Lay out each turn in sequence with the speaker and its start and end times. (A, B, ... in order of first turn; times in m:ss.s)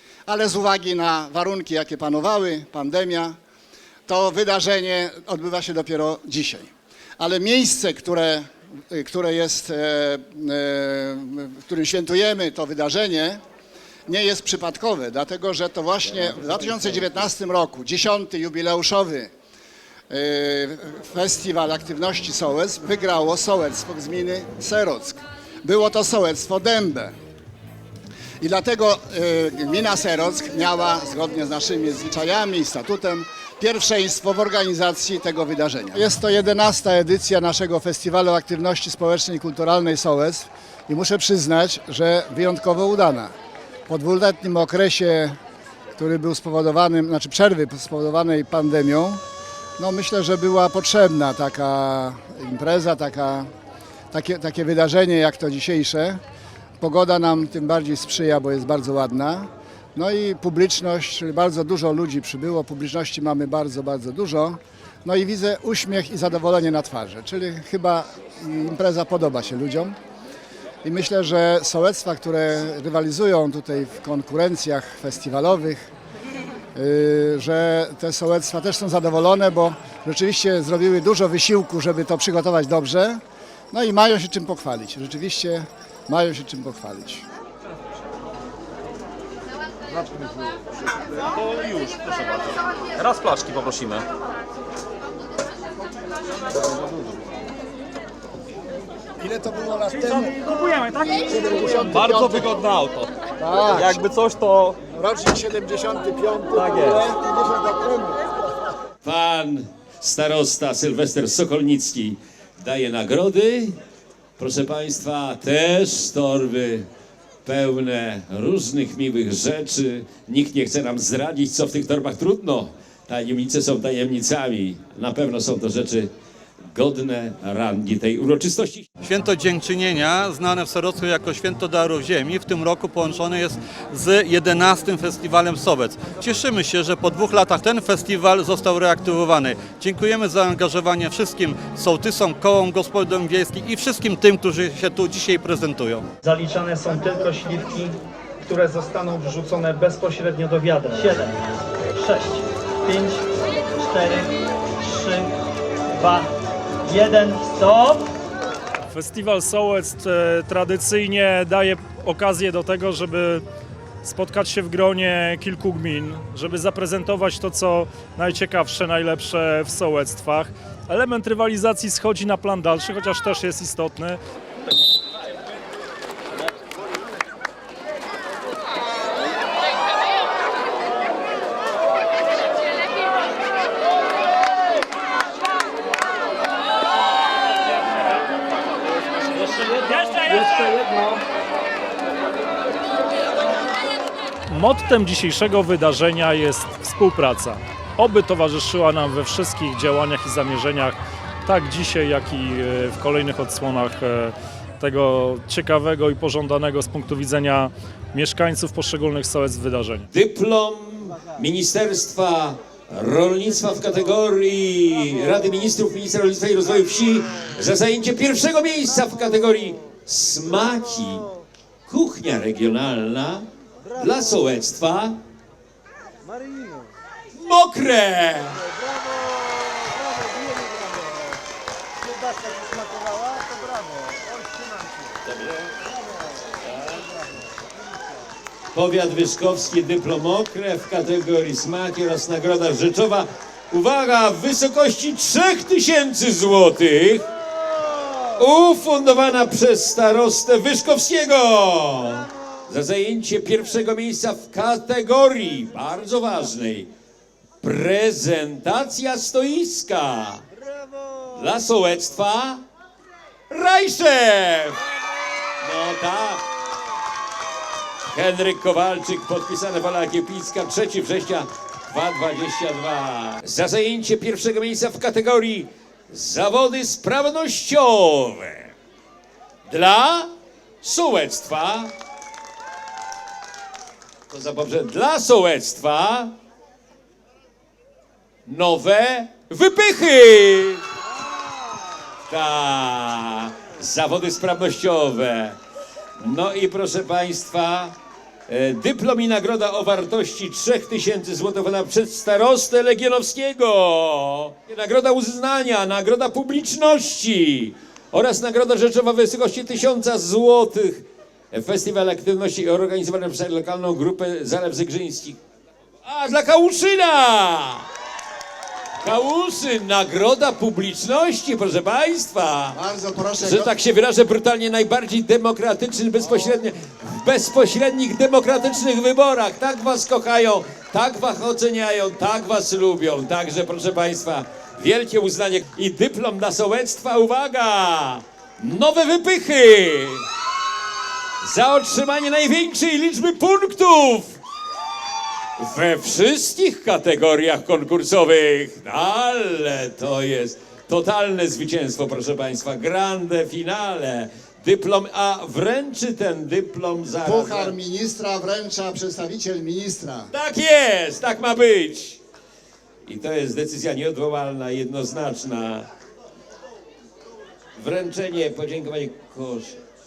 0:00.2-0:03.4 A
0:04.1-0:13.4 A
0:14.1-0:19.3 A
0:20.1-0:27.1 A
0:28.4-0:43.3 A
0:43.9-0:45.4 A
0:46.0-0:49.2 A
0:49.8-0:53.5 A
0:54.1-0:56.2 A
0:56.8-1:10.0 A
1:10.8-1:15.9 A
1:16.7-1:23.2 A
1:23.7-1:27.2 A
1:31.4-1:34.0 B
1:39.2-1:42.6 A
1:42.0-1:43.1 B
1:43.4-1:44.1 A
1:43.8-1:44.8 C
1:44.9-1:48.2 A
1:46.6-1:47.0 C
1:49.0-1:53.8 D
1:54.4-1:56.8 D
1:57.4-2:06.1 D
2:06.7-2:08.9 D
2:09.0-2:26.1 E
2:26.2-2:35.3 C
2:35.9-2:36.3 C
2:36.8-2:38.1 C
2:38.9-2:43.4 F
2:44.0-2:54.2 F
3:09.8-3:10.8 F
3:14.5-3:30.1 F
3:30.1-3:41.2 D
3:41.9-3:45.2 D
3:47.3-3:48.6 D
3:55.3-3:55.7 D
3:58.7-4:07.2 D
4:08.4-4:16.9 D
4:17.6-4:20.4 D
4:21.3-4:22.6 D
4:23.5-4:24.8 D
4:25.6-4:26.4 D
4:28.1-4:38.7 D
4:39.7-4:40.3 D
4:40.8-4:41.9 D
4:44.3-4:46.3 D
4:48.4-4:50.8 D
4:52.3-4:55.6 D
4:56.2-4:57.9 D
4:58.5-5:15.4 D
5:16.0-5:17.8 D
5:19.0-5:22.8 D
5:22.7-5:23.7 A
5:23.4-5:40.2 D
5:41.4-5:44.4 D
5:45.6-5:57.7 D
5:57.2-6:00.3 A
6:00.3-6:02.2 D
6:03.0-6:05.9 D
6:07.8-6:09.8 D